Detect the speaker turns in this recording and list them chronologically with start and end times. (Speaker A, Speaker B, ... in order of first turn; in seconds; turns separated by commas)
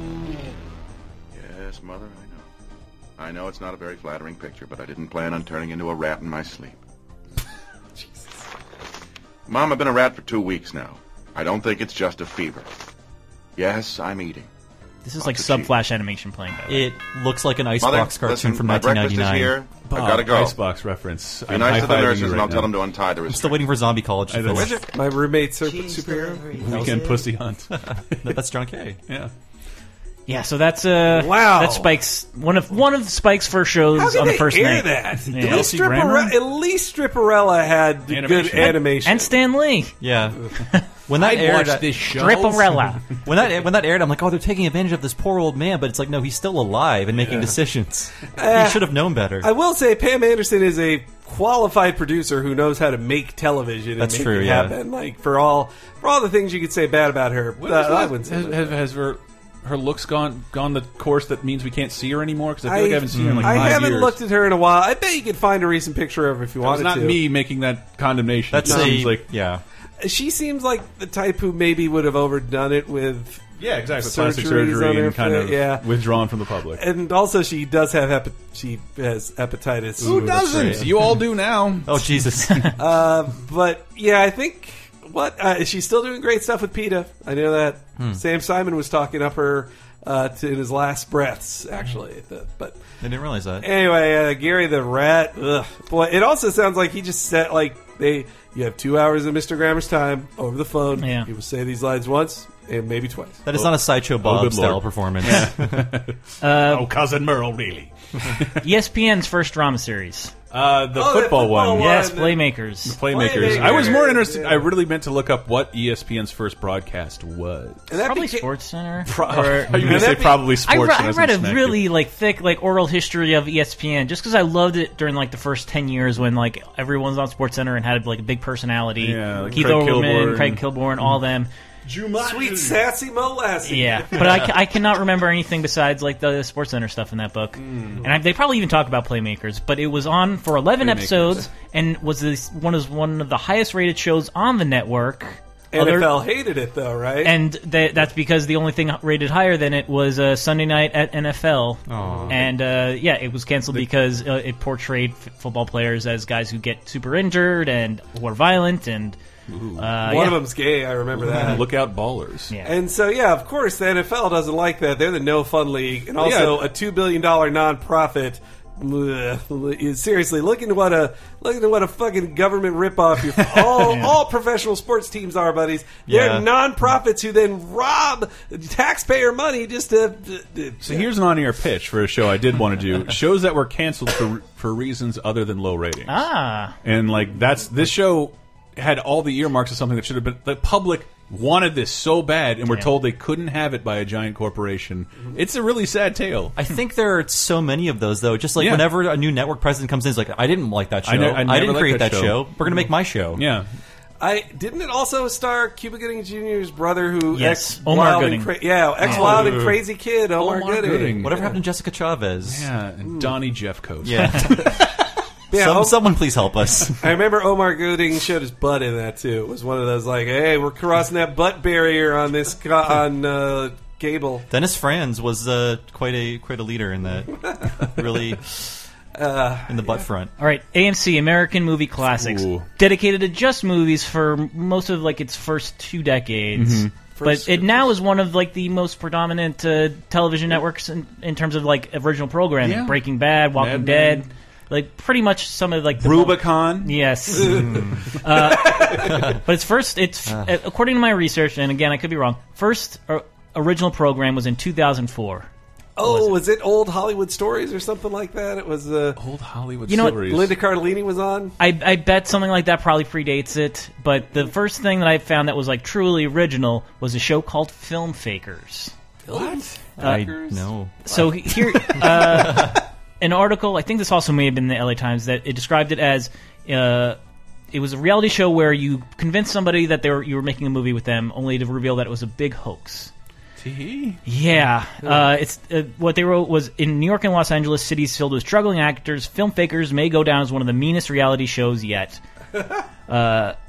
Speaker A: 1.3-2.5, Speaker A: 3.2-6.8, Speaker A: 9.5-12.7, Speaker A: 13.6-14.5, Speaker B: 15.0-16.9, Speaker A: 15.2-15.7, Speaker C: 16.7-19.6, Speaker A: 17.8-20.6, Speaker D: 19.9-22.7, Speaker A: 21.5-23.6, Speaker C: 21.7-22.3, Speaker C: 23.3-24.8, Speaker D: 24.3-24.8, Speaker E: 24.9-26.9, Speaker D: 26.5-27.7, Speaker C: 26.6-27.2, Speaker C: 27.7-29.0, Speaker B: 30.3-35.7, Speaker E: 31.1-31.9, Speaker E: 33.9-39.3, Speaker D: 35.4-36.4, Speaker D: 38.1-38.9, Speaker B: 38.6-40.0, Speaker C: 40.0-40.4, Speaker B: 40.5-40.8, Speaker C: 41.1-41.9, Speaker D: 41.2-43.0, Speaker B: 42.1-43.0, Speaker C: 43.2-49.5, Speaker D: 47.2-47.5, Speaker E: 48.4-58.8, Speaker C: 54.0-54.8, Speaker D: 57.6-64.2, Speaker E: 62.6-67.2, Speaker C: 63.1-63.8, Speaker D: 66.6-69.2, Speaker C: 68.5-69.6, Speaker E: 68.7-69.0, Speaker E: 70.0-75.8, Speaker D: 73.6-76.8, Speaker E: 76.8-80.9, Speaker D: 80.0-82.1, Speaker C: 80.0-80.9, Speaker C: 81.8-82.7, Speaker E: 82.8-92.8, Speaker C: 93.0-93.7, Speaker E: 93.6-103.4, Speaker B: 101.0-101.3, Speaker C: 103.5-105.9, Speaker D: 103.5-108.6, Speaker B: 106.4-106.9, Speaker B: 108.6-110.3, Speaker D: 110.5-112.0, Speaker E: 110.9-112.4, Speaker B: 111.8-113.8, Speaker D: 112.9-117.8, Speaker E: 113.1-114.7, Speaker E: 117.9-118.5, Speaker B: 118.0-131.5, Speaker D: 119.1-121.9, Speaker E: 119.8-120.5, Speaker D: 129.0-131.2, Speaker D: 131.8-132.9, Speaker E: 132.2-134.5, Speaker B: 133.7-146.1, Speaker D: 137.6-138.1, Speaker D: 140.8-141.5, Speaker E: 145.7-147.3, Speaker B: 147.2-159.2, Speaker C: 151.9-152.4, Speaker D: 159.5-159.9, Speaker B: 159.8-160.4, Speaker E: 160.0-161.6, Speaker D: 161.2-162.5, Speaker E: 162.6-181.1, Speaker D: 166.2-166.7, Speaker D: 173.4-174.0, Speaker B: 173.8-174.2, Speaker C: 176.1-176.5, Speaker D: 180.8-186.2, Speaker B: 186.1-186.8, Speaker D: 186.8-196.6, Speaker C: 196.6-203.4, Speaker D: 198.6-198.9, Speaker D: 201.1-203.7, Speaker E: 204.2-211.5, Speaker B: 207.3-208.5, Speaker B: 209.0-209.3, Speaker C: 209.0-209.8, Speaker D: 209.1-209.7, Speaker D: 210.4-211.5, Speaker C: 211.2-212.7, Speaker D: 212.4-214.8, Speaker E: 213.0-213.3, Speaker C: 214.0-214.7, Speaker E: 215.5-216.0, Speaker C: 215.5-217.0, Speaker E: 217.0-224.5, Speaker C: 224.5-228.4, Speaker E: 229.2-230.1, Speaker C: 229.7-230.3, Speaker B: 230.4-255.5, Speaker D: 232.1-232.7, Speaker D: 236.6-237.0, Speaker E: 237.2-237.9, Speaker D: 242.6-243.0, Speaker D: 243.5-244.3, Speaker D: 246.0-246.9, Speaker E: 247.4-247.8, Speaker C: 247.4-248.1, Speaker E: 248.5-249.1, Speaker C: 249.0-249.4, Speaker C: 250.3-250.5, Speaker E: 256.0-259.2, Speaker B: 256.0-256.4, Speaker D: 259.2-260.6, Speaker B: 259.9-260.2, Speaker E: 259.9-261.5, Speaker B: 261.6-268.9, Speaker E: 269.3-270.6, Speaker D: 269.3-269.8, Speaker C: 270.0-271.2, Speaker B: 270.0-270.3, Speaker B: 271.1-277.2, Speaker C: 271.9-272.8, Speaker B: 277.7-283.1, Speaker D: 283.6-284.2, Speaker B: 284.2-292.2, Speaker B: 293.1-293.6